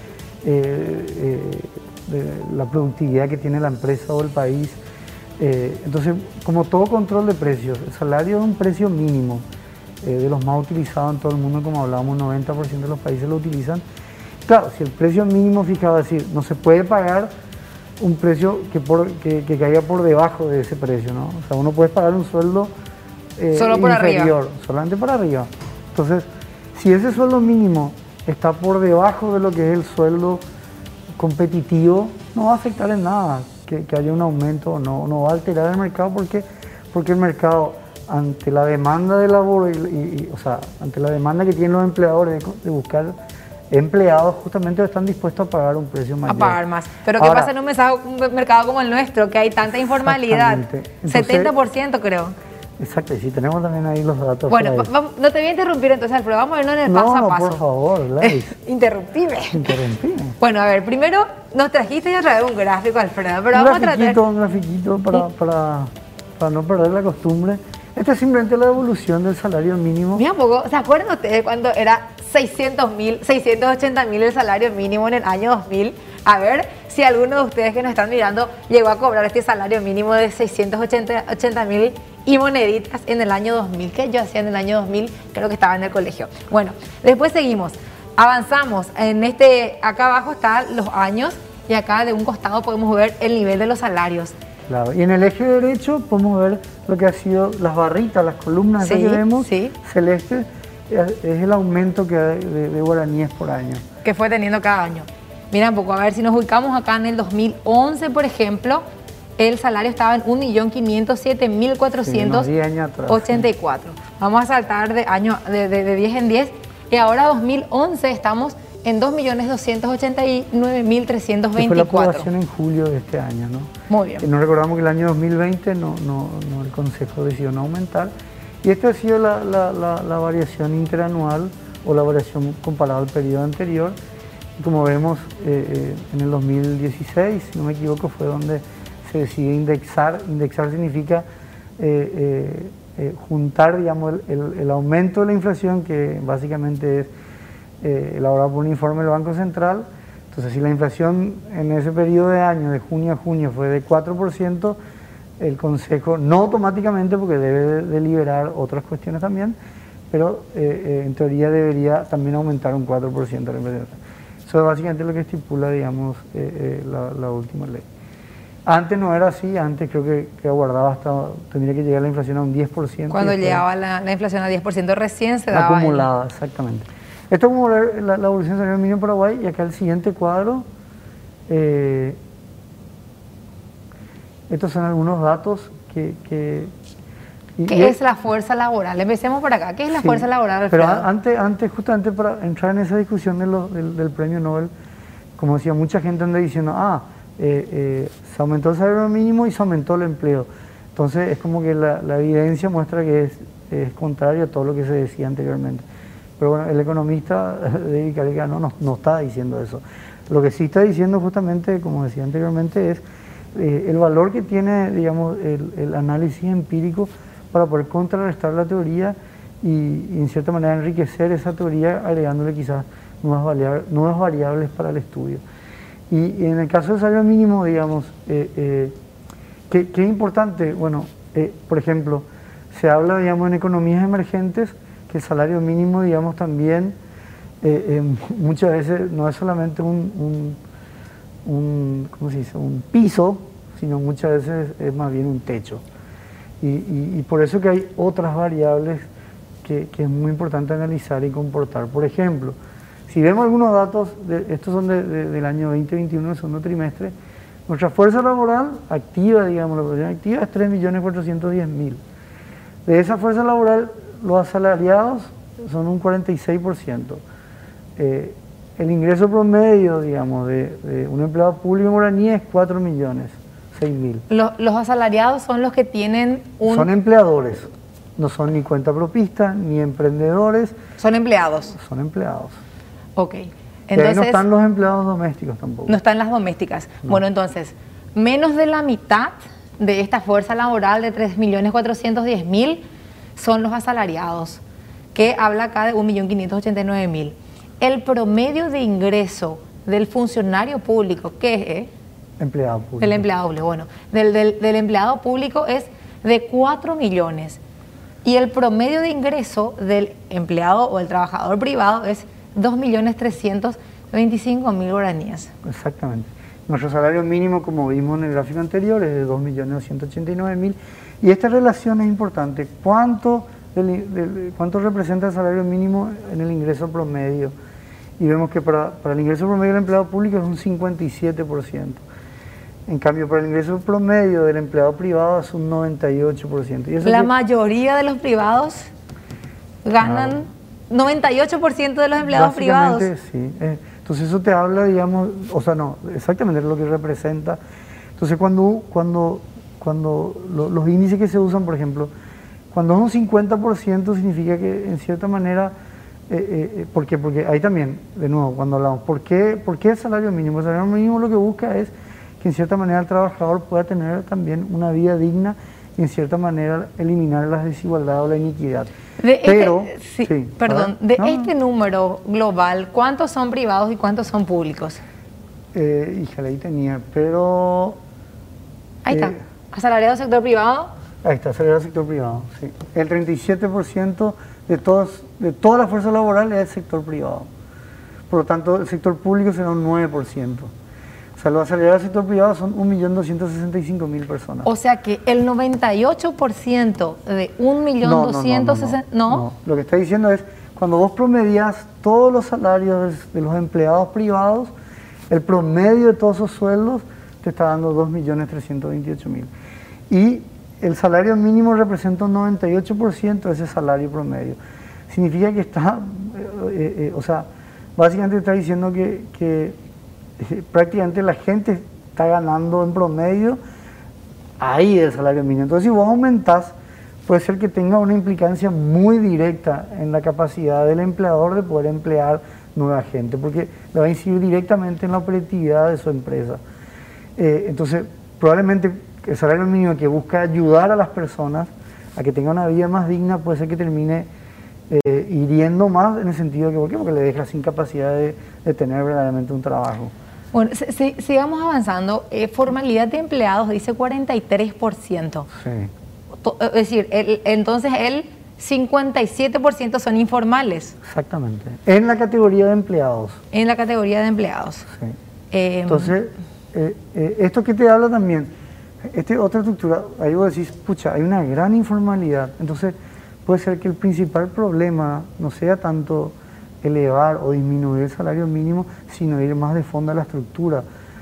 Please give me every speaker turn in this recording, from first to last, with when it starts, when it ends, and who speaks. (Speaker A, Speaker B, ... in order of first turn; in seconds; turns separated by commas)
Speaker A: 0.4-4.8, Speaker A: 5.4-9.4, Speaker A: 10.0-13.8, Speaker A: 14.4-17.3, Speaker A: 18.0-22.7, Speaker A: 23.4-30.4, Speaker B: 23.5-24.3, Speaker A: 31.2-43.1, Speaker A: 43.7-46.6, Speaker B: 46.3-52.3, Speaker A: 47.2-47.5, Speaker A: 49.9-51.5, Speaker A: 52.8-54.9, Speaker B: 54.5-57.6, Speaker A: 56.9-58.5, Speaker B: 58.2-59.8, Speaker A: 59.5-60.4, Speaker B: 60.4-64.2, Speaker A: 63.5-70.2, Speaker B: 70.1-94.3, Speaker A: 94.7-103.8, Speaker B: 98.8-99.7, Speaker B: 104.0-108.8, Speaker B: 109.4-112.5, Speaker A: 112.0-113.5, Speaker B: 113.1-122.3, Speaker A: 121.5-128.1, Speaker B: 123.9-124.3, Speaker A: 128.6-133.9, Speaker A: 134.6-141.2, Speaker A: 141.8-147.1, Speaker A: 147.8-154.8, Speaker A: 155.4-159.6, Speaker A: 160.1-167.8, Speaker A: 168.7-173.6, Speaker B: 173.1-176.1, Speaker A: 175.5-180.6, Speaker A: 181.5-182.2, Speaker A: 184.5-186.7, Speaker A: 187.6-188.0, Speaker B: 187.7-191.1, Speaker A: 189.9-194.7, Speaker A: 195.4-205.8, Speaker A: 206.4-213.0, Speaker A: 213.5-225.4, Speaker A: 226.1-228.9, Speaker A: 229.7-236.9, Speaker A: 237.6-240.6, Speaker A: 241.4-245.8, Speaker A: 246.6-249.1, Speaker A: 249.6-252.6, Speaker A: 253.1-257.1, Speaker A: 257.7-262.0, Speaker A: 262.9-267.2, Speaker A: 268.0-274.2, Speaker B: 274.3-276.9, Speaker A: 276.6-280.8, Speaker B: 281.0-281.8, Speaker A: 281.7-282.6, Speaker B: 283.1-284.4, Speaker A: 283.9-286.0, Speaker B: 285.9-292.8, Speaker B: 293.4-294.6, Speaker B: 295.1-301.9, Speaker A: 302.4-303.3, Speaker B: 303.0-307.6, Speaker B: 308.2-315.5, Speaker A: 315.6-327.5, Speaker A: 328.2-332.0, Speaker A: 332.9-337.3, Speaker B: 337.0-338.9, Speaker B: 339.8-343.1, Speaker A: 340.0-340.4, Speaker A: 342.2-347.6, Speaker A: 348.2-352.1, Speaker A: 352.7-355.7, Speaker A: 356.3-368.9, Speaker B: 369.2-375.0, Speaker A: 369.4-371.5, Speaker A: 375.7-378.0, Speaker B: 379.0-380.9, Speaker A: 379.1-379.4, Speaker A: 381.2-387.5, Speaker A: 388.3-390.7, Speaker A: 391.4-394.7, Speaker B: 394.6-399.4, Speaker A: 398.0-404.7, Speaker A: 405.3-409.5, Speaker A: 410.1-414.6, Speaker A: 415.1-419.8, Speaker A: 420.4-423.6, Speaker A: 424.6-426.7, Speaker A: 427.3-436.6, Speaker A: 437.4-444.3, Speaker A: 444.9-450.1, Speaker B: 450.5-455.5, Speaker A: 455.5-455.9, Speaker B: 456.4-461.0, Speaker A: 461.0-463.4, Speaker B: 463.5-464.9, Speaker B: 465.5-466.1, Speaker A: 465.9-468.5, Speaker A: 469.0-472.9, Speaker A: 473.4-480.8